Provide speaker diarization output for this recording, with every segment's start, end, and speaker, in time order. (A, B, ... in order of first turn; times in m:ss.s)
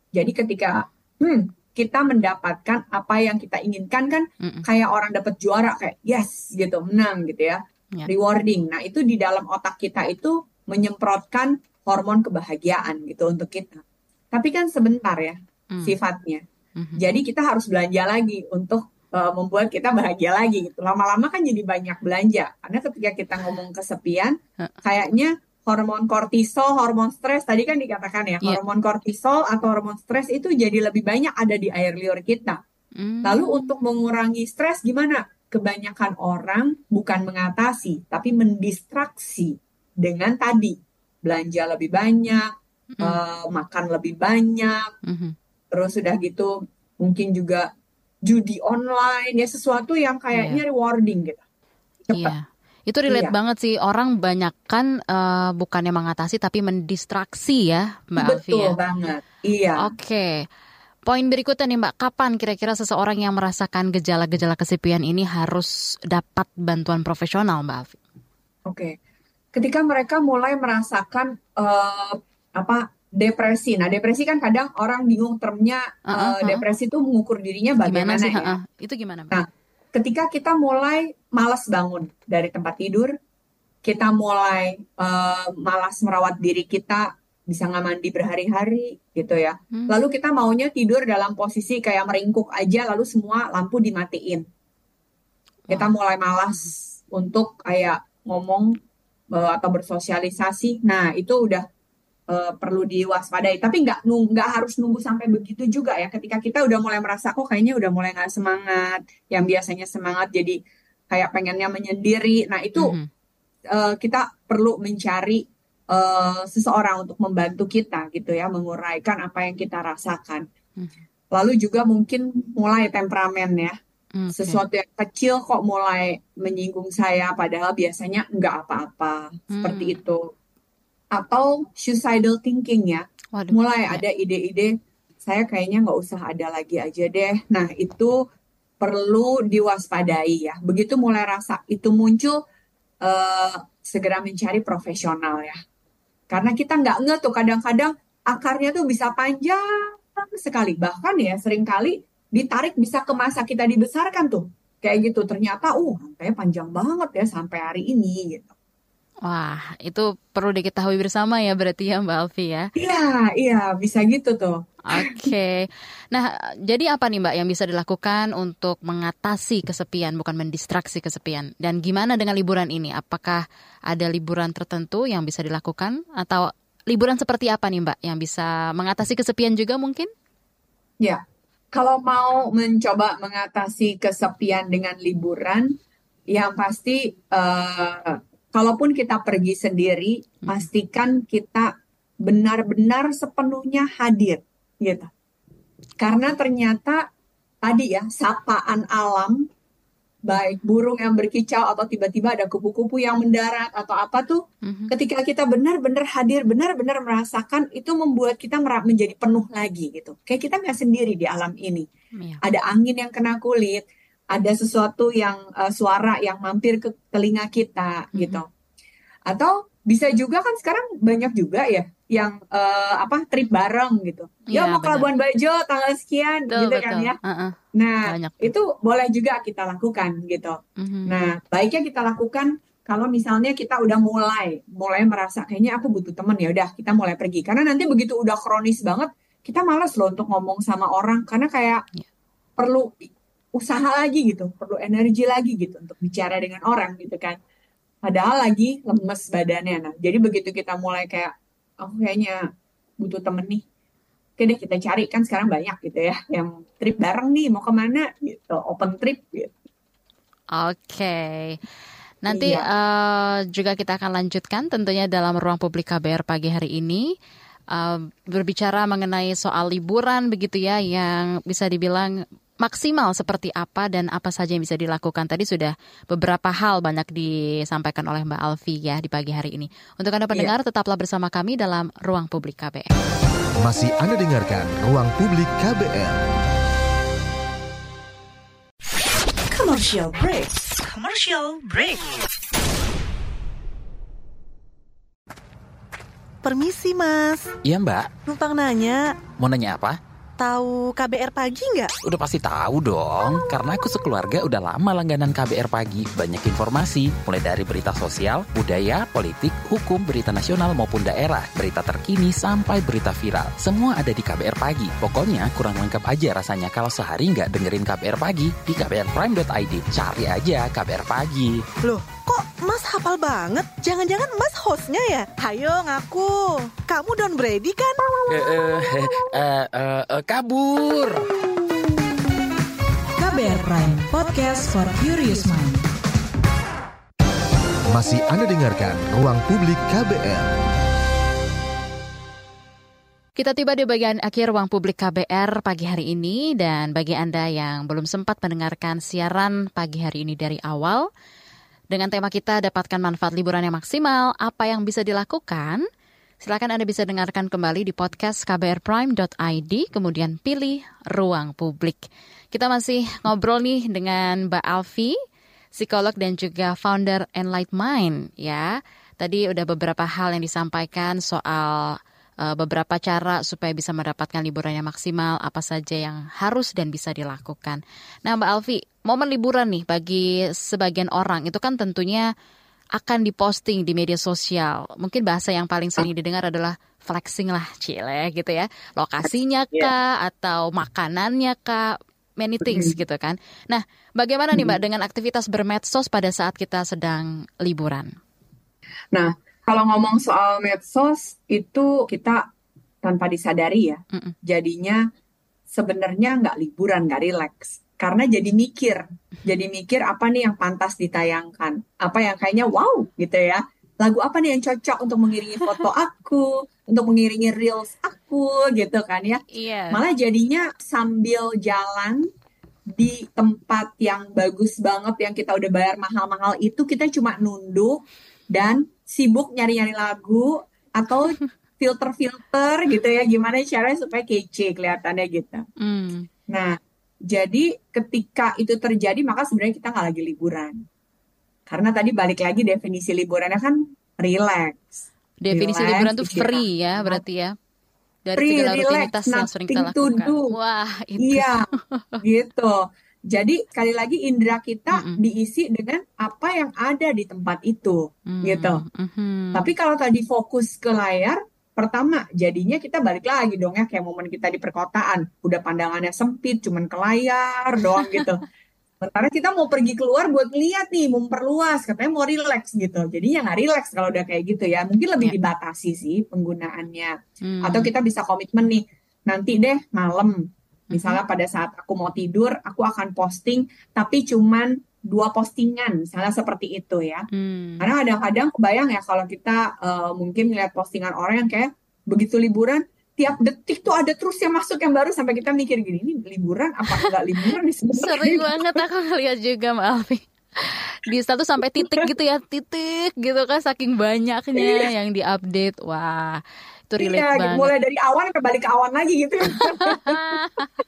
0:00.1-0:13.8 A
0:14.3-0:16.4 A
0:16.8-0:17.1 B
0:17.0-0:32.6 A
0:33.0-0:33.8 B
0:33.2-0:42.5 A
0:43.0-0:44.8 A
0:45.0-0:45.3 B
0:45.7-0:47.7 A
0:48.2-0:51.4 A
0:50.3-0:50.6 B
0:52.1-0:52.3 A
0:52.1-0:58.7 B
0:53.1-0:53.3 A
0:58.2-0:59.9 A
0:59.8-1:00.3 B
1:01.1-1:08.0 B
1:08.7-1:08.9 A
1:09.5-1:18.5 A
1:16.1-1:16.6 B
1:17.8-1:19.4 B
1:19.3-1:23.1 A
1:23.8-1:34.4 A
1:29.7-1:30.0 B
1:35.7-1:38.8 A
1:39.3-1:41.6 A
1:42.3-1:50.6 A
1:51.1-1:52.9 A
1:52.8-1:53.1 B
1:53.7-2:00.4 A
2:01.3-2:03.7 A
2:04.2-2:04.6 B
2:04.3-2:10.2 A
2:09.5-2:10.0 B
2:11.1-2:18.1 A
2:13.3-2:14.0 B
2:18.8-2:22.4 A
2:23.0-2:25.6 A
2:26.3-2:38.5 A
2:39.2-2:42.7 B
2:42.8-2:45.3 A
2:44.9-3:00.1 B
3:01.7-3:05.8 A
3:06.3-3:11.7 A
3:12.2-3:15.1 A
3:16.0-3:17.0 A
3:17.6-3:19.4 A
3:20.3-3:31.8 A
3:24.6-3:24.9 B
3:32.4-3:38.4 A
3:38.1-3:38.4 B
3:39.3-3:47.2 A
3:44.5-3:45.1 B
3:46.5-3:48.5 B
3:47.8-4:01.8 A
3:50.8-3:51.2 B
4:02.6-4:07.4 A
4:08.0-4:12.4 A
4:13.0-4:13.6 A
4:14.4-4:19.5 A
4:20.5-4:21.6 B
4:22.2-4:27.1 B
4:22.3-4:22.6 A
4:27.7-4:42.9 B
4:43.6-4:46.2 C
4:49.5-4:52.1 D
4:56.4-4:57.5 E
4:57.6-4:58.1 F
4:58.2-4:59.0 E
4:59.4-5:00.0 F
5:00.4-5:01.9 E
5:02.0-5:21.7 F
5:21.8-5:26.3 E
5:26.9-5:28.0 E
5:28.3-5:31.2 F
5:33.2-5:35.8 G
5:37.9-5:40.5 C
5:43.4-5:51.1 B
5:51.9-5:55.8 B
5:56.4-6:05.2 B
6:05.7-6:22.2 B
6:23.0-6:38.1 B
6:29.3-6:29.9 A
6:32.6-6:32.9 A
6:39.1-6:42.4 A
6:43.0-6:45.0 A
6:45.7-7:02.3 A
6:59.5-7:00.0 B
7:02.9-7:08.0 A
7:08.5-7:15.6 A
7:15.8-7:16.3 B
7:16.5-7:16.8 A
7:17.3-7:20.8 A
7:21.7-7:27.2 A
7:25.4-7:27.6 B
7:28.2-7:32.2 B
7:28.4-7:30.5 A
7:31.2-7:31.6 A
7:32.2-7:38.8 A
7:34.9-7:35.2 B
7:38.3-7:39.6 B
7:39.5-7:48.4 A
7:48.0-7:48.2 B
7:49.0-8:00.4 A
7:57.4-7:57.9 B
8:00.9-8:01.2 B
8:00.9-8:07.3 A
8:07.3-8:07.9 B
8:07.8-8:18.8 A
8:18.0-8:27.7 B
8:21.8-8:22.1 A
8:24.6-8:24.9 A
8:27.0-8:30.2 A
8:29.6-8:30.7 B